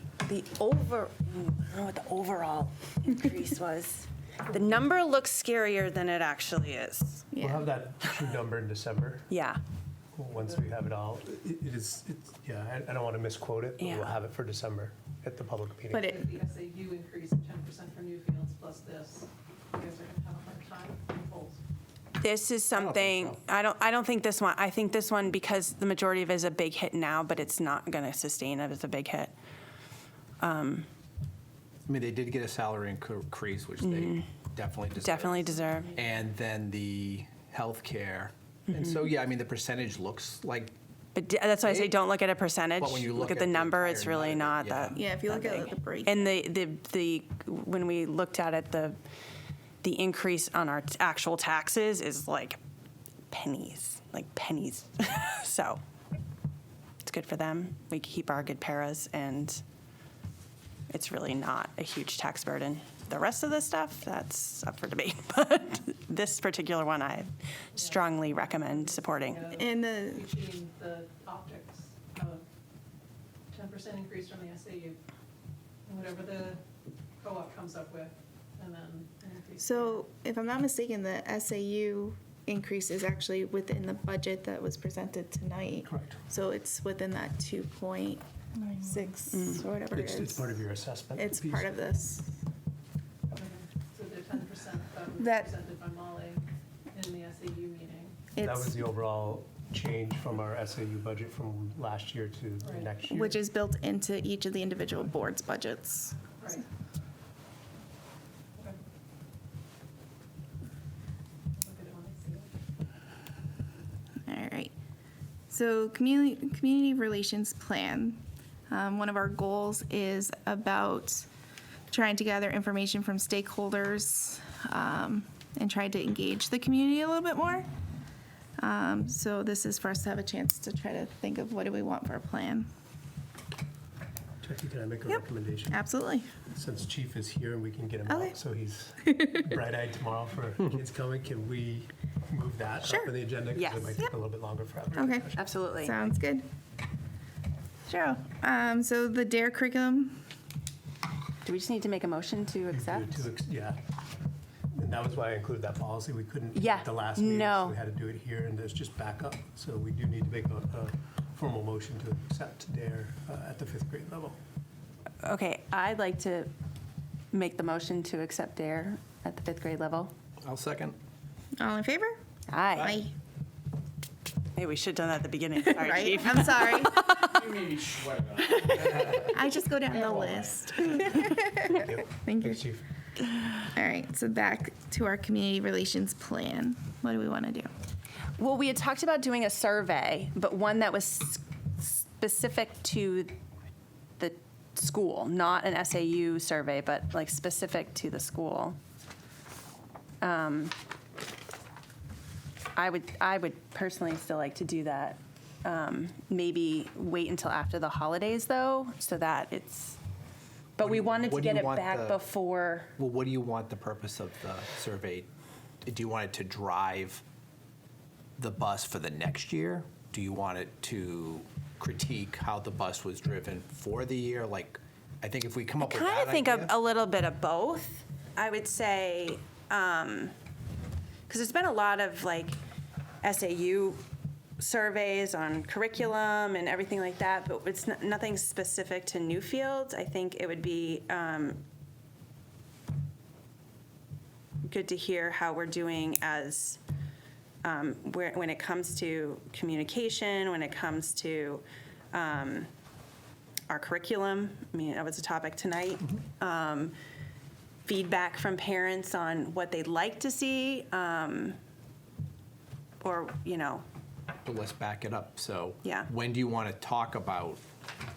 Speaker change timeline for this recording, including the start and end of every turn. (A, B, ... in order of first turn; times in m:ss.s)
0:00.3-0:07.3 A
0:07.3-0:07.7 B
0:07.4-0:09.3 C
0:09.3-0:09.6 A
0:10.1-0:16.2 C
0:13.8-0:14.1 A
0:15.9-0:16.3 B
0:16.1-0:21.6 D
0:22.2-0:29.3 A
0:22.7-0:23.4 E
0:30.4-0:30.9 A
0:31.9-0:40.8 E
0:33.8-0:34.3 A
0:35.0-0:36.0 A
0:35.7-0:36.3 D
0:41.2-0:49.0 A
0:41.6-0:42.0 E
0:42.8-0:45.0 E
0:45.0-0:46.4 B
0:49.8-0:52.6 A
0:53.3-0:55.8 A
0:57.0-0:59.6 A
1:00.9-1:09.5 A
1:07.8-1:12.5 D
1:09.5-1:10.3 B
1:13.5-1:15.0 D
1:15.9-1:16.6 D
1:17.2-1:20.1 D
1:19.6-1:30.6 B
1:25.9-1:26.2 C
1:29.3-1:29.6 A
1:29.9-1:31.7 C
1:31.2-1:32.4 B
1:33.3-1:38.3 D
1:35.2-1:35.5 B
1:38.3-1:38.8 B
1:38.4-1:43.4 C
1:42.6-1:42.9 D
1:43.1-1:46.2 B
1:46.4-1:46.7 D
1:51.6-1:52.5 D
1:54.3-1:54.7 B
1:55.5-2:01.3 B
2:01.9-2:07.7 B
2:08.6-2:12.7 B
2:14.4-2:15.9 C
2:15.7-2:16.3 B
2:16.4-2:25.5 C
2:18.1-2:18.4 B
2:19.0-2:19.4 B
2:22.8-2:23.1 B
2:23.5-2:24.1 A
2:25.0-2:26.5 B
2:25.3-2:26.0 A
2:27.9-2:30.2 B
2:31.4-2:33.3 A
2:32.7-2:33.8 C
2:34.8-2:44.4 C
2:36.5-2:37.8 A
2:45.2-2:46.5 A
2:47.3-2:50.1 A
2:50.4-2:51.0 E
2:51.6-2:52.2 B
2:52.5-2:53.0 A
2:52.7-2:53.1 B
2:54.6-2:57.7 A
2:55.7-2:57.1 B
2:57.9-2:58.7 E
2:58.5-2:58.9 A
2:58.9-3:02.6 B
3:01.6-3:02.8 C
3:03.5-3:07.7 B
3:08.4-3:13.3 A
3:14.2-3:18.8 A
3:20.2-3:20.7 A
3:22.8-3:30.0 A
3:30.8-3:32.9 A
3:30.8-3:32.2 E
3:33.0-3:35.3 E
3:35.8-3:37.2 E
3:38.4-3:46.8 E
3:45.8-3:50.3 A
3:51.3-3:52.6 A
3:53.2-3:54.0 A
3:54.6-4:01.6 A
4:04.7-4:06.8 A
4:07.6-4:12.7 A
4:13.7-4:17.0 A
4:17.8-4:21.6 A
4:23.0-4:23.8 A
4:24.4-4:27.6 E
4:25.8-4:26.1 A